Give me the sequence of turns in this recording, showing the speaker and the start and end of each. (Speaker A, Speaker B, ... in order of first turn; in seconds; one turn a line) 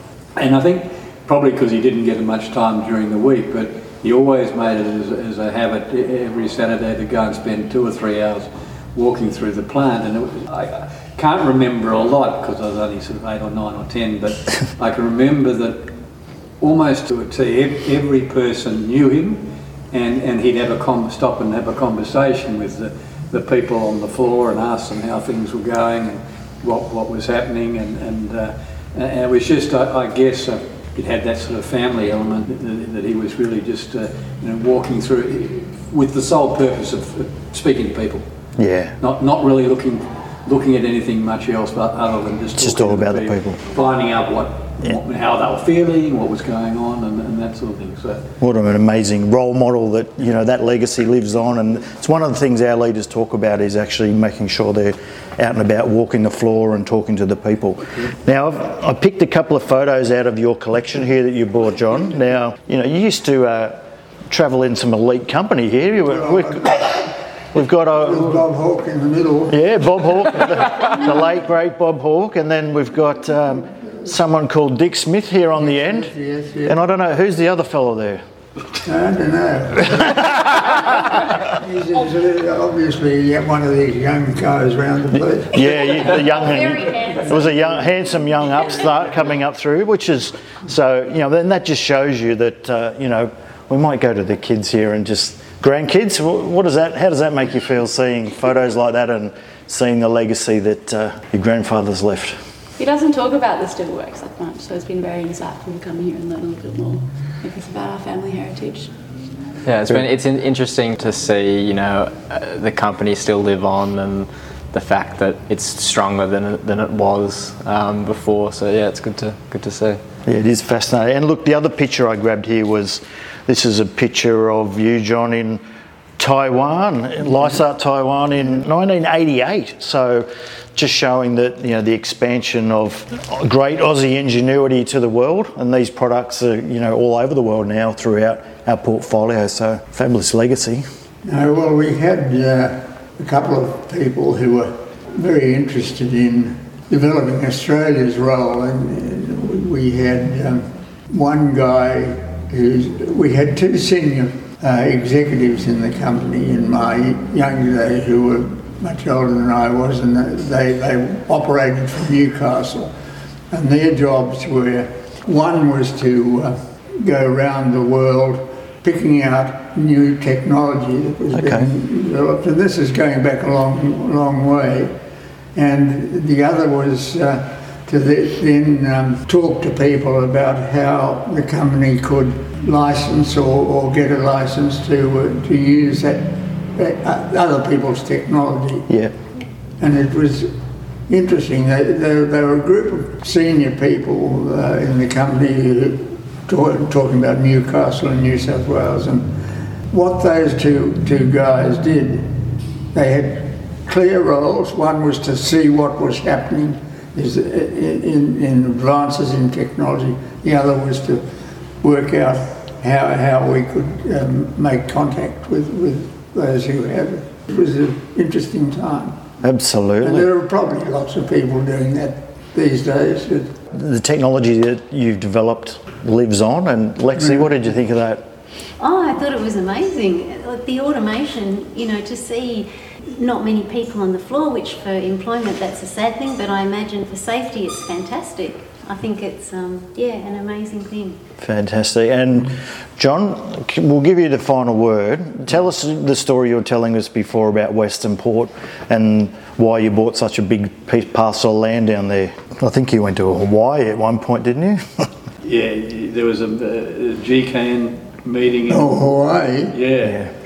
Speaker A: 0.4-15.9
Speaker A: 16.6-38.2
Speaker B: 38.6-39.0
Speaker A: 39.0-48.2
Speaker B: 42.6-43.6
Speaker B: 48.4-68.4
Speaker C: 66.1-66.9
Speaker C: 67.9-69.6
Speaker B: 69.5-76.1
Speaker C: 75.6-76.8
Speaker B: 76.7-78.2
Speaker C: 78.8-80.3
Speaker C: 81.4-85.6
Speaker B: 85.5-102.4
Speaker D: 102.8-108.9
Speaker E: 109.7-120.0
Speaker B: 120.3-125.6
Speaker B: 126.2-140.8
Speaker C: 141.2-162.9
Speaker C: 163.5-174.9
Speaker B: 171.3-171.7
Speaker C: 175.6-188.9
Speaker C: 189.8-190.5
Speaker C: 191.1-199.3
Speaker C: 199.9-202.4
Speaker C: 202.9-211.2
Speaker C: 211.8-219.2
Speaker B: 219.4-220.3
Speaker C: 220.0-223.5
Speaker B: 223.7-228.2
Speaker C: 227.2-227.5
Speaker F: 228.8-241.2
Speaker B: 241.4-255.1
Speaker A: 255.4-259.0
Speaker C: 258.7-259.8
Speaker A: 259.7-260.3
Speaker B: 260.0-260.3